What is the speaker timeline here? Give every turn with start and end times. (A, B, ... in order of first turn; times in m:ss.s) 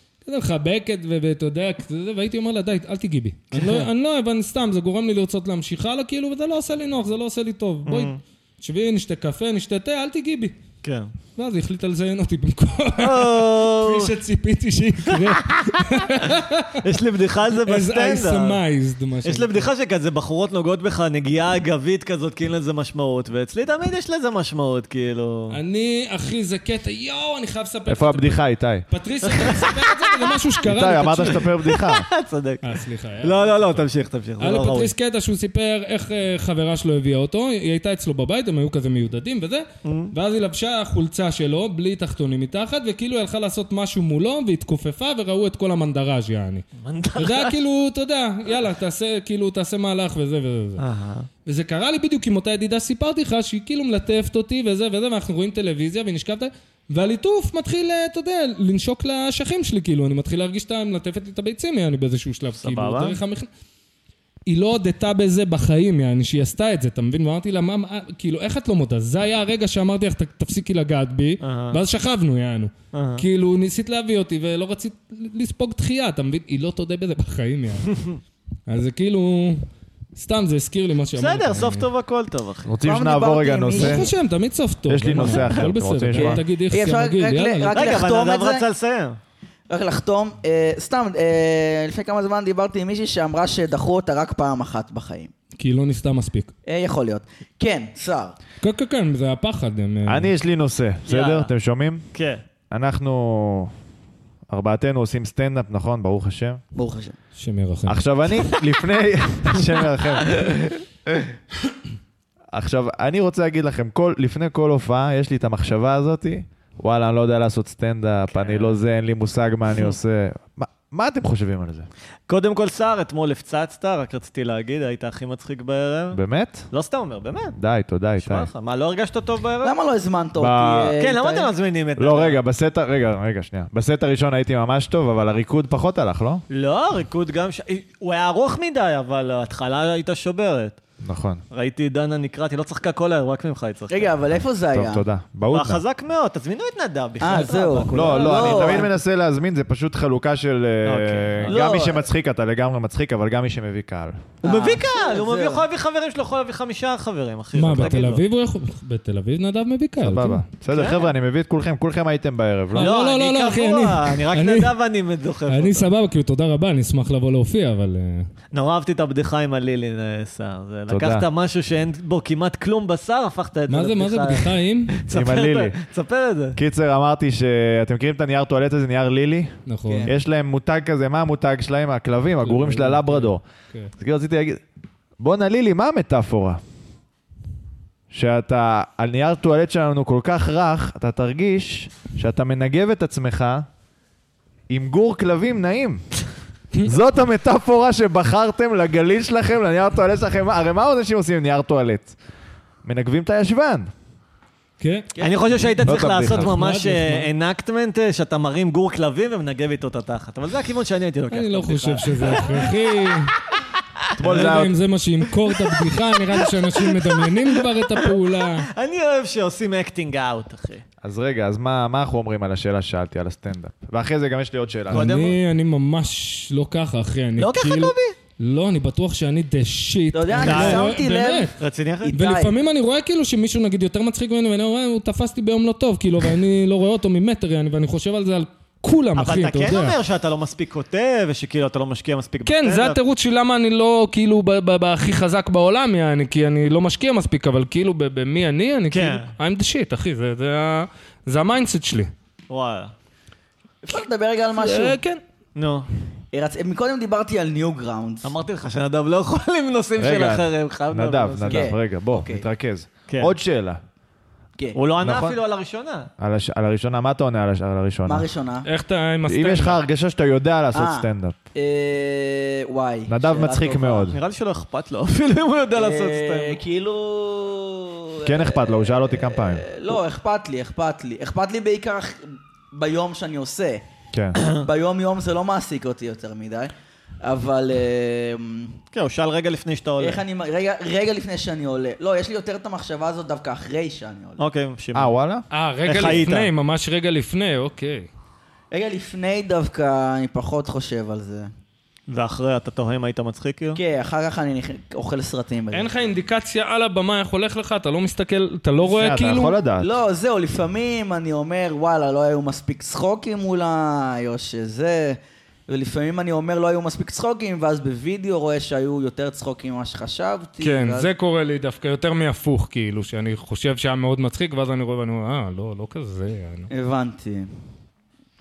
0:00.2-0:10.6 A
0:03.6-0:03.9 B
0:07.9-0:08.2 B
0:10.8-0:11.1 B
0:11.4-0:16.8 A
0:13.0-0:14.1 B
0:15.1-0:18.6 B
0:17.5-0:19.7 A
0:19.2-0:25.6 B
0:25.5-0:31.5 A
0:27.9-0:28.9 C
0:29.2-0:30.4 B
0:30.6-0:32.1 C
0:31.3-0:32.6 B
0:32.6-0:33.9 A
0:33.2-0:34.9 B
0:34.4-0:50.8 A
0:39.8-0:40.1 B
0:46.8-0:47.5 B
0:50.8-0:51.3 B
0:51.5-1:03.5 A
1:02.6-1:03.2 B
1:04.5-1:18.0 A
1:11.4-1:11.8 B
1:12.9-1:13.2 B
1:18.7-1:21.9 A
1:21.2-1:22.7 B
1:22.7-1:24.1 C
1:22.8-1:24.1 D
1:23.7-1:27.8 A
1:24.9-1:26.4 C
1:25.2-1:25.6 D
1:26.1-1:28.7 D
1:27.7-1:29.2 B
1:29.7-1:35.3 D
1:35.6-1:36.5 A
1:36.7-1:38.4 D
1:38.6-1:40.3 A
1:40.1-1:42.1 C
1:41.1-1:41.5 B
1:42.1-1:42.4 B
1:42.7-1:43.7 C
1:44.5-1:46.6 C
1:46.8-1:47.2 D
1:47.4-1:48.0 A
1:47.9-1:50.7 C
1:52.5-2:01.9 C
1:58.4-1:58.8 B
2:02.3-2:07.6 B
2:06.1-2:06.7 C
2:07.6-2:08.5 C
2:08.2-2:09.7 B
2:09.6-2:11.5 D
2:10.4-2:10.9 C
2:11.0-2:12.4 B
2:12.0-2:16.4 C
2:16.5-2:20.8 B
2:21.0-2:21.4 C
2:21.5-2:24.1 B
2:23.9-2:25.0 D
2:24.7-2:25.8 C
2:25.5-2:28.8 B
2:27.2-2:28.9 D
2:27.9-2:34.2 C
2:30.8-2:31.6 B
2:31.4-2:32.1 D
2:34.4-2:35.6 D
2:34.4-2:38.2 B
2:37.6-2:40.4 A
2:40.0-2:42.9 C
2:40.7-2:41.1 B
2:42.7-2:44.7 A
2:42.8-2:45.9 B
2:45.5-2:48.3 A
2:48.5-2:56.6 B
2:50.9-2:51.3 C
2:53.7-2:55.0 A
2:55.1-2:55.8 C
2:56.6-2:59.6 C
2:59.7-3:00.1 A
2:59.9-3:00.1 D
3:00.1-3:03.4 C
3:02.4-3:03.9 A
3:04.0-3:04.6 C
3:05.2-3:06.6 C
3:08.1-3:13.7 C
3:14.7-3:16.0 C
3:16.8-3:22.2 C
3:22.8-3:23.9 C
3:24.8-3:25.1 A
3:25.2-3:25.7 D
3:25.2-3:33.2 B
3:25.8-3:26.5 C
3:25.9-3:27.3 A
3:31.3-3:33.3 A
3:34.2-3:34.7 C
3:34.2-3:38.7 A
3:35.5-3:40.8 B
3:41.0-3:45.1 C
3:44.9-3:45.4 B
3:44.9-3:51.5 A
3:47.4-3:48.2 B
3:50.1-3:51.5 D
3:50.4-3:50.9 B
3:51.6-3:52.2 B
3:52.0-3:52.5 D
3:52.1-4:00.0 A
3:59.2-4:03.0 B
4:02.4-4:12.1 A
4:08.9-4:09.3 B
4:12.5-4:12.9 B
4:13.8-4:15.0 D
4:14.6-4:15.2 A
4:15.6-4:15.9 B
4:16.3-4:18.3 D
4:18.2-4:21.7 B
4:20.0-4:23.8 C
4:21.5-4:22.4 D
4:23.1-4:23.3 B
4:24.8-4:26.1 B
4:25.0-4:25.4 C
4:26.2-4:28.3 C
4:28.1-4:28.7 D
4:28.6-4:29.8 A
4:29.3-4:31.4 C
4:30.7-4:34.1 D
4:33.1-4:34.2 C
4:34.1-4:36.6 B
4:35.8-4:43.8 D
4:38.2-4:39.6 C
4:44.1-4:44.4 C
4:44.5-4:48.8 D
4:48.9-4:50.2 B
4:50.0-4:54.4 D
4:54.4-4:55.1 B
4:55.0-4:55.4 C
4:55.5-4:58.1 A
4:55.8-4:56.5 B
4:58.7-5:01.5 D
5:02.1-5:03.8 B
5:03.8-5:05.9 D
5:05.7-5:09.6 A
5:08.8-5:09.9 C
5:09.8-5:21.1 D
5:20.6-5:26.7 A
5:26.7-5:27.5 D